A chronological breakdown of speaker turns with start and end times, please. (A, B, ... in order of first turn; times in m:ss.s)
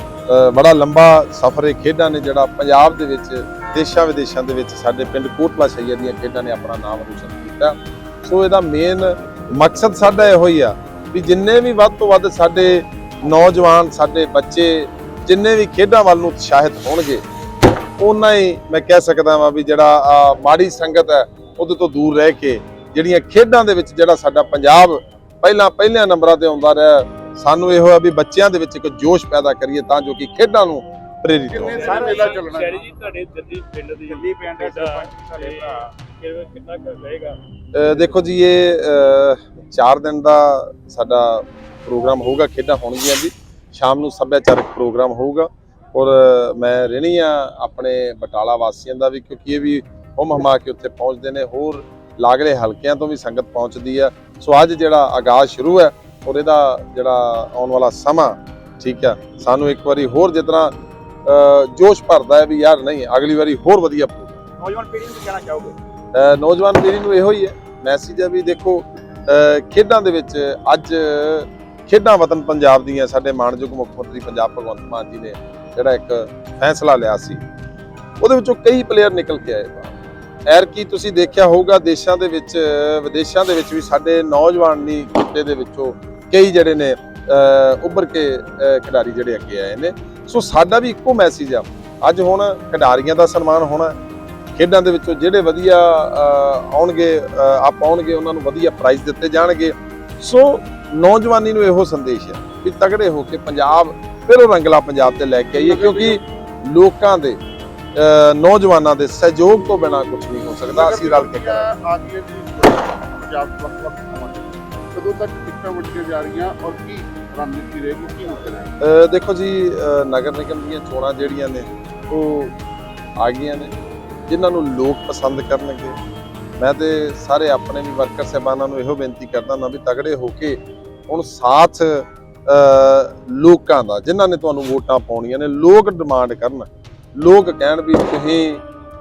0:00.3-0:17.2 A
0:18.0-0:32.0 A
0:31.5-0:32.9 B
0:31.8-0:37.4 C
0:34.1-0:35.9 D
0:37.7-1:00.7 A
1:01.3-1:04.4 A
1:04.6-1:05.8 D
1:06.1-1:17.4 A
1:18.2-1:19.9 A
1:20.5-1:34.0 A
1:34.6-1:47.4 A
1:45.5-1:46.2 B
1:48.0-1:51.6 A
1:50.7-1:58.7 B
1:58.8-2:02.6 A
2:03.2-2:03.7 A
2:04.3-2:06.0 A
2:06.6-2:18.6 A